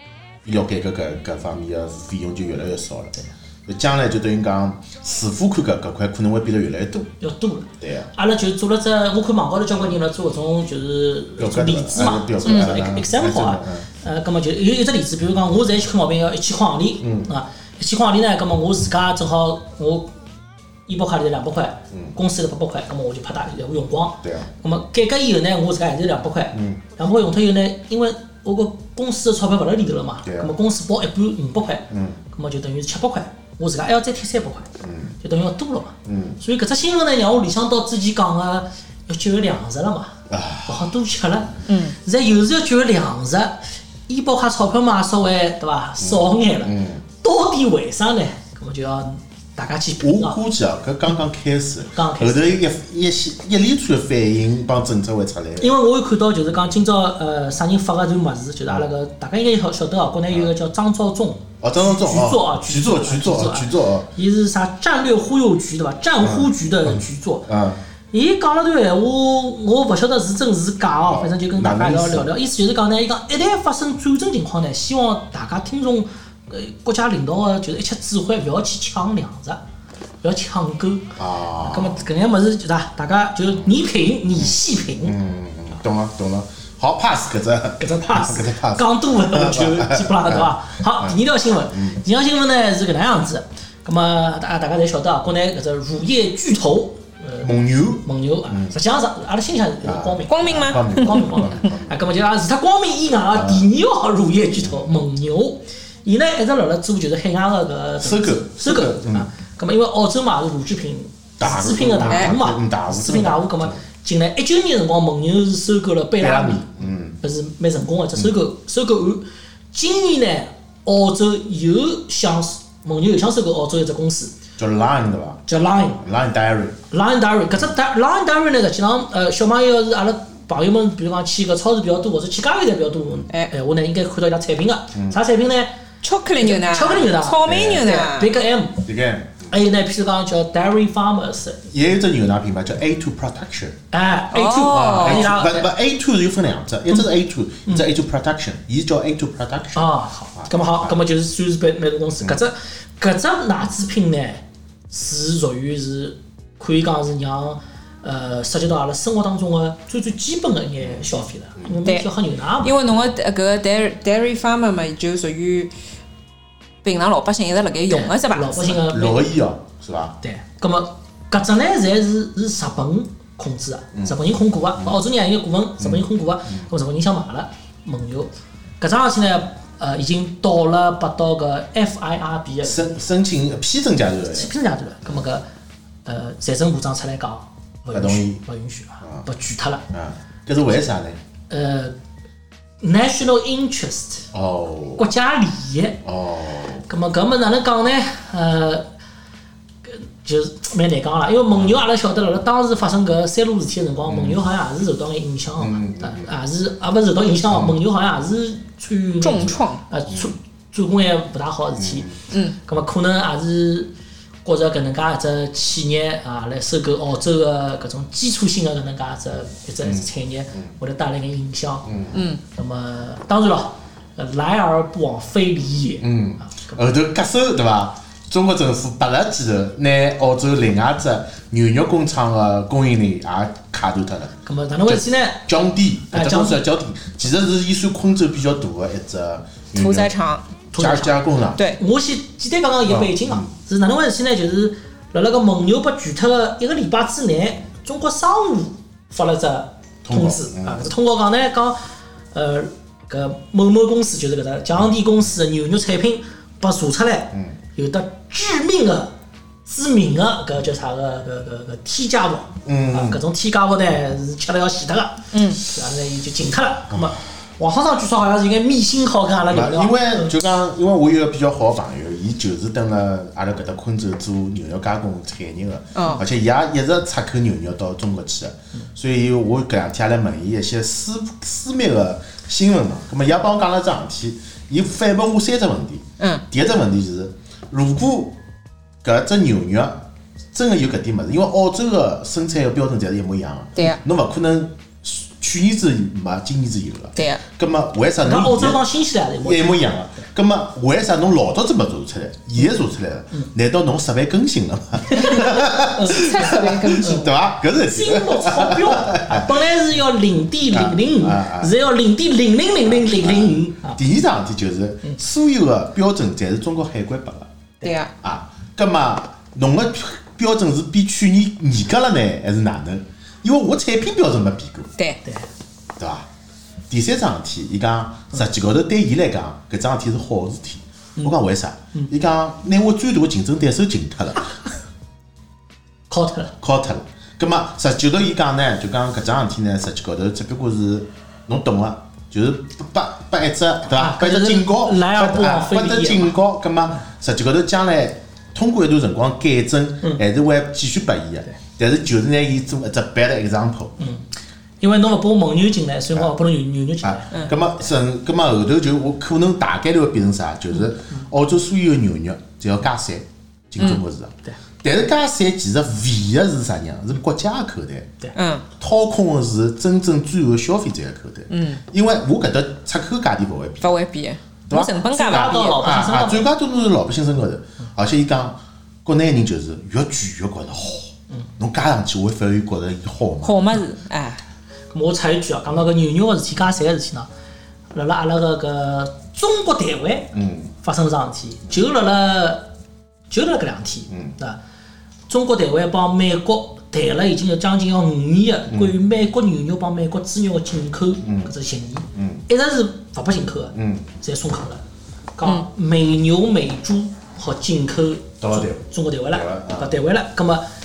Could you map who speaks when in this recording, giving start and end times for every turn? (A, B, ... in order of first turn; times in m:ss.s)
0:00.4-0:03.2 A
0:03.7-0:07.1 A
0:07.2-0:20.1 B
0:07.8-0:08.1 A
0:11.4-0:13.9 A
0:12.5-0:12.7 C
0:17.0-0:17.3 A
0:20.9-0:34.7 B
0:24.2-0:24.5 A
0:26.5-0:26.8 A
0:30.2-0:30.5 A
0:31.9-0:32.2 A
0:34.8-0:35.2 A
0:35.2-0:50.4 B
0:36.1-0:36.4 A
0:40.3-0:40.9 A
0:41.7-0:42.0 C
0:46.0-0:47.0 A
0:50.0-0:55.8 A
0:52.0-0:52.6 B
0:55.6-1:07.5 B
1:01.6-1:04.1 A
1:06.2-1:07.8 A
1:08.1-1:19.6 B
1:11.0-1:12.3 A
1:20.2-1:25.2 B
1:21.2-1:22.1 A
1:24.4-1:31.2 A
1:27.8-2:04.3 B
1:31.7-1:32.0 A
1:37.4-1:38.7 A
1:39.8-1:42.0 A
1:40.3-1:41.5 C
1:43.3-1:43.7 A
1:48.0-1:49.3 A
1:51.4-1:53.8 A
1:56.2-1:57.2 A
2:04.6-2:06.8 A
2:05.5-2:06.0 B
2:06.9-2:15.8 B
2:16.0-2:18.3 C
2:16.4-2:18.9 B
2:17.4-2:18.0 A
2:18.8-2:19.5 A
2:19.5-2:21.7 B
2:21.7-2:23.8 A
2:23.9-2:25.7 B
2:24.3-2:25.3 C
2:24.7-2:31.0 A
2:29.8-2:42.8 B
2:42.6-2:45.7 C
2:46.8-2:48.8 C
2:47.9-2:49.3 B
2:48.7-2:50.2 A
2:50.2-3:03.0 B
3:02.6-3:04.5 A
3:04.3-3:05.4 B
3:06.1-3:09.9 B
3:07.9-3:08.4 A
3:09.9-3:11.2 A
3:11.5-3:12.0 B
3:12.8-3:14.3 B
3:14.3-3:15.0 A
3:15.0-3:16.0 B
3:16.0-3:16.8 A
3:16.9-3:18.9 B
3:19.9-3:32.1 B
3:24.1-3:24.4 A
3:25.6-3:26.3 A
3:27.5-3:27.8 A
3:29.2-3:29.8 C
3:31.8-3:32.2 A
3:32.3-3:32.6 C
3:32.6-3:33.9 B
3:34.4-3:41.9 B
3:41.9-3:42.2 A
3:42.1-3:42.4 C
3:42.5-3:46.8 B
3:46.0-3:54.4 A
3:54.4-3:55.5 B
3:54.9-4:00.1 A
3:56.1-3:56.6 B
3:59.8-4:00.5 C
4:00.7-4:01.2 B
4:00.7-4:01.6 A
4:01.8-4:11.8 B
4:02.8-4:03.5 A
4:10.0-4:10.9 A
4:12.3-4:19.1 B
4:19.7-4:30.3 B
4:22.6-4:23.2 A
4:25.3-4:25.6 C
4:29.5-4:48.4 A
4:46.2-4:46.4 C
4:49.0-4:58.8 A
4:58.2-4:59.8 B
4:59.4-5:09.5 A
5:05.1-5:14.0 B
5:06.0-5:07.3 C
5:10.7-5:11.7 A
5:12.8-5:17.5 A
5:17.8-5:18.1 C
5:18.2-5:24.9 A
5:26.0-5:26.3 A
5:26.9-5:34.5 A
5:36.1-5:36.5 B
5:36.6-5:53.9 A
5:44.0-5:46.4 B
5:54.0-5:54.2 B
5:54.8-5:57.6 B
5:57.0-6:08.2 A
6:08.4-6:08.7 C
6:08.8-6:14.0 A
6:11.5-6:11.8 C
6:13.8-6:15.8 C
6:14.7-6:23.6 A
6:15.1-6:16.5 B
6:23.4-6:24.4 C
6:24.9-6:27.3 B
6:27.9-6:32.7 B
6:30.3-6:30.7 A
6:33.3-6:34.6 B
6:35.3-6:44.8 B
6:38.7-6:39.0 A
6:41.2-6:41.5 A
6:42.1-6:42.4 A
6:43.7-6:44.1 A
6:45.4-6:50.7 B
6:48.4-6:49.9 A